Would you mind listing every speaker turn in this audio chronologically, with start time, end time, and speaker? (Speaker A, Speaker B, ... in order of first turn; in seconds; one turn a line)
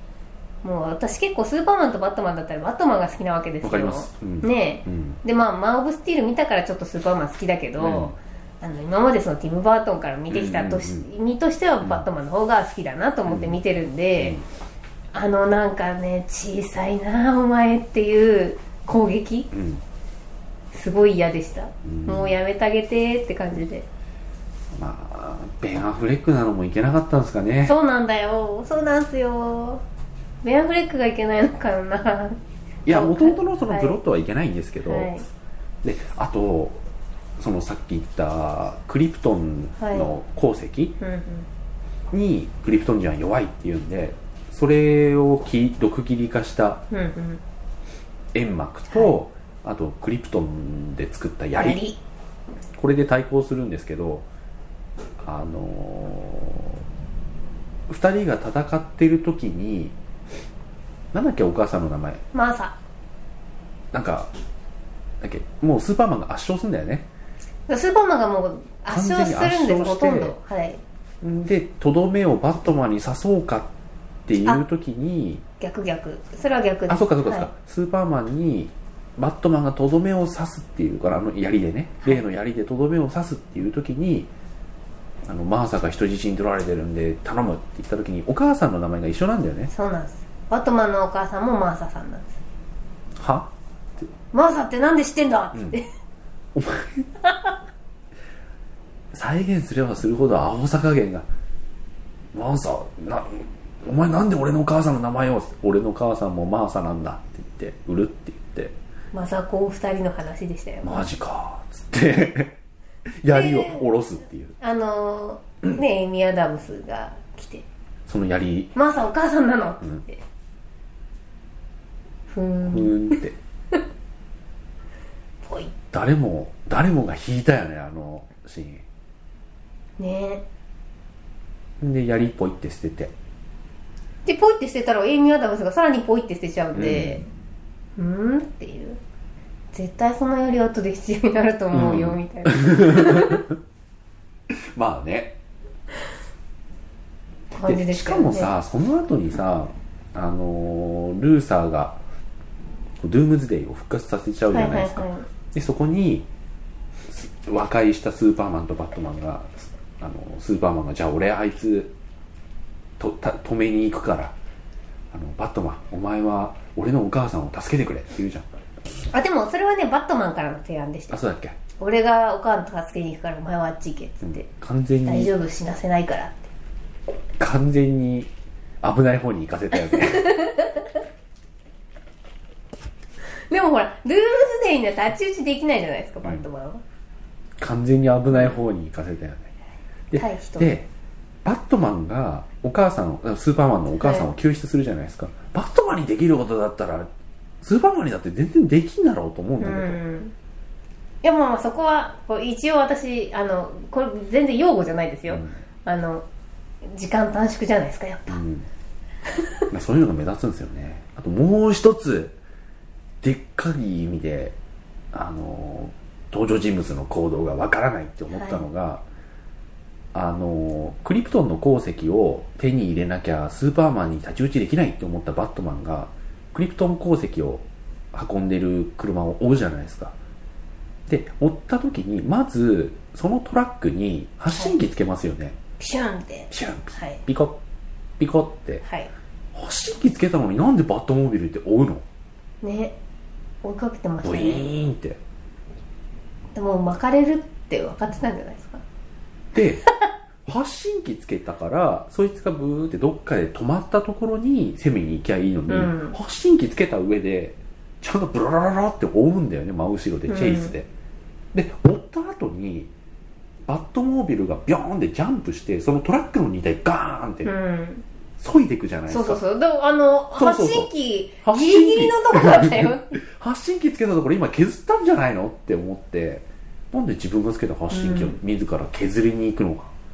Speaker A: 0.6-14.4
Speaker B: 3.6-5.2
Speaker B: 7.8-8.1
Speaker B: 10.3-11.1
Speaker B: 13.3-13.6
Speaker B: 14.2-14.4
Speaker A: 15.1-19.5
Speaker B: 19.5-19.8
Speaker A: 20.7-23.9
Speaker B: 21.8-22.3
Speaker B: 24.7-27.7
Speaker A: 27.6-29.8
Speaker A: 30.4-34.0
Speaker B: 32.9-35.1
Speaker A: 34.8-35.3
Speaker B: 35.8-36.8
Speaker B: 37.4-40.9
Speaker A: 39.8-40.1
Speaker A: 41.0-41.5
Speaker B: 42.1-46.8
Speaker A: 46.9-47.4
Speaker B: 48.3-51.8
Speaker A: 51.6-52.0
Speaker B: 52.7-54.2
Speaker B: 55.2-56.8
Speaker B: 57.9-59.9
Speaker B: 61.1-62.2
Speaker A: 62.3-62.7
Speaker B: 63.9-64.3
Speaker B: 65.2-67.1
Speaker A: 67.7-70.8
Speaker B: 68.9-70.3
Speaker B: 71.2-73.7
Speaker B: 74.3-75.4
Speaker A: 75.6-77.5
Speaker B: 76.9-84.3
Speaker B: 85.2-89.7
Speaker A: 89.7-92.4
Speaker B: 93.2-94.1
Speaker A: 94.3-95.8
Speaker B: 95.5-95.8
Speaker B: 96.5-97.1
Speaker A: 97.3-97.5
Speaker B: 99.1-101.3
Speaker B: 102.3-108.7
Speaker A: 109.1-111.1
Speaker B: 110.8-112.5
Speaker B: 113.2-114.5
Speaker A: 113.3-113.9
Speaker A: 114.6-117.6
Speaker B: 118.1-118.7
Speaker A: 118.7-120.2
Speaker A: 122.3-123.2
Speaker B: 122.6-123.3
Speaker A: 125.4-125.7
Speaker B: 125.9-128.8
Speaker A: 130.0-130.4
Speaker B: 131.8-133.1
Speaker A: 134.2-137.2
Speaker B: 136.7-137.2
Speaker A: 138.0-139.0
Speaker A: 139.7-143.4
Speaker B: 141.7-143.4
Speaker B: 144.5-145.4
Speaker A: 147.5-148.5
Speaker B: 147.6-152.0
Speaker B: 153.0-156.3
Speaker A: 154.5-155.3
Speaker B: 157.1-161.9
Speaker B: 163.0-164.3
Speaker B: 165.1-168.5
Speaker A: 169.1-171.2
Speaker B: 171.1-171.6
Speaker A: 171.8-174.5
Speaker B: 174.2-175.3
Speaker A: 175.0-176.5
Speaker B: 177.4-178.3
Speaker B: 178.8-180.3
Speaker A: 179.7-180.9
Speaker A: 183.5-186.8
Speaker B: 187.6-189.5
Speaker A: 188.3-188.6
Speaker B: 190.1-190.9
Speaker A: 190.2-190.7
Speaker B: 191.4-197.1
Speaker A: 194.0-194.3
Speaker B: 197.6-200.0
Speaker A: 199.6-200.3
Speaker A: 201.2-206.2
Speaker B: 205.3-205.6
Speaker A: 206.8-208.4
Speaker B: 208.3-208.7
Speaker B: 209.7-212.3
Speaker B: 213.2-214.6
Speaker B: 215.1-219.0
Speaker A: 218.3-218.7
Speaker B: 220.1-230.2
Speaker B: 231.1-235.6
Speaker A: 235.8-237.2
Speaker B: 236.5-237.6
Speaker B: 238.2-238.8
Speaker A: 238.8-239.1
Speaker B: 239.5-242.0
Speaker A: 242.6-242.9
Speaker A: 243.6-244.7
Speaker B: 244.2-245.2
Speaker A: 246.5-248.8
Speaker B: 249.5-249.8
Speaker B: 250.4-260.9
Speaker A: 255.7-256.2
Speaker A: 260.3-260.7
Speaker B: 261.5-262.9
Speaker B: 263.6-267.5
Speaker A: 267.4-268.0
Speaker B: 268.4-269.4
Speaker A: 269.1-273.2
Speaker B: 270.4-270.9
Speaker B: 271.4-279.9
Speaker A: 277.9-278.4